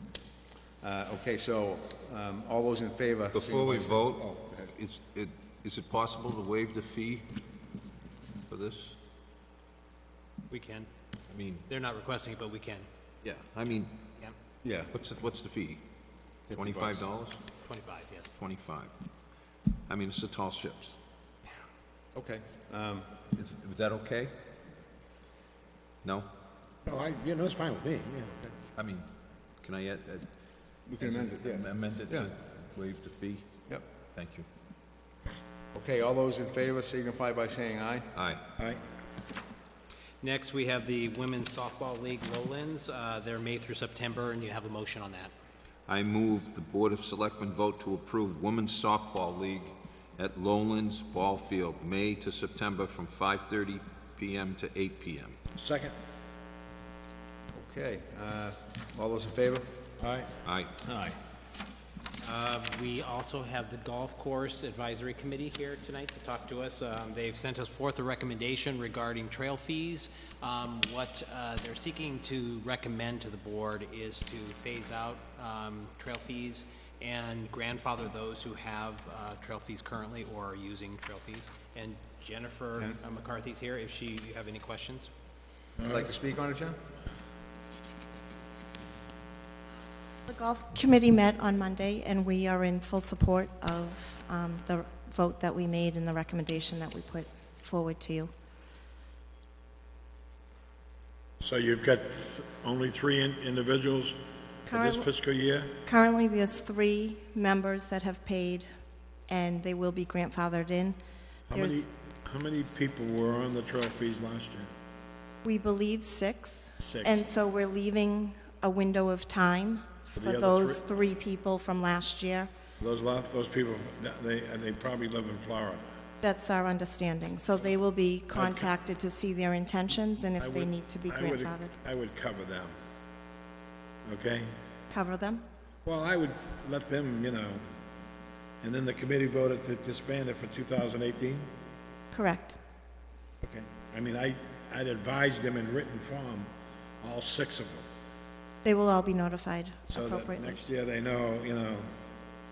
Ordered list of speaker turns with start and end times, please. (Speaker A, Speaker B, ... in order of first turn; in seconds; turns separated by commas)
Speaker A: 0.8-4.4, Speaker B: 3.3-7.3, Speaker B: 8.5-9.0, Speaker C: 10.5-10.9, Speaker B: 11.3-11.7, Speaker C: 11.7-12.9, Speaker B: 13.2-14.0, Speaker A: 14.6-14.9, Speaker B: 14.9-15.8, Speaker A: 16.5-17.1, Speaker B: 16.5-17.4, Speaker C: 17.6-18.4, Speaker B: 18.4-18.9, Speaker B: 19.9-21.0, Speaker A: 22.1-23.1, Speaker B: 23.3-24.3, Speaker B: 26.0-26.3, Speaker D: 26.9-28.3, Speaker B: 28.8-29.1, Speaker B: 29.6-30.3, Speaker A: 30.9-32.3, Speaker B: 31.0-33.5, Speaker B: 34.1-34.5, Speaker A: 35.7-38.1, Speaker B: 38.1-38.4, Speaker C: 40.2-45.3, Speaker B: 45.9-55.4, Speaker D: 55.6-56.0, Speaker A: 57.5-59.7, Speaker D: 60.0-60.3, Speaker B: 60.4-60.7, Speaker A: 60.8-61.2, Speaker C: 62.2-85.1, Speaker A: 85.9-86.8, Speaker E: 90.3-98.3, Speaker D: 101.4-104.2, Speaker E: 104.7-105.1, Speaker D: 104.7-105.8, Speaker E: 105.8-108.7, Speaker E: 109.3-111.0, Speaker D: 111.5-114.7, Speaker E: 111.5-111.8, Speaker E: 115.4-122.5, Speaker D: 116.8-117.3, Speaker D: 120.2-120.8, Speaker D: 122.8-125.8, Speaker E: 126.2-131.7, Speaker D: 128.3-128.7, Speaker D: 130.4-132.7, Speaker D: 134.1-134.5, Speaker E: 134.9-135.4, Speaker D: 135.8-137.7, Speaker D: 138.6-141.5, Speaker E: 142.1-142.6, Speaker D: 143.4-146.5, Speaker D: 147.0-147.8, Speaker E: 148.6-150.6, Speaker D: 149.9-151.9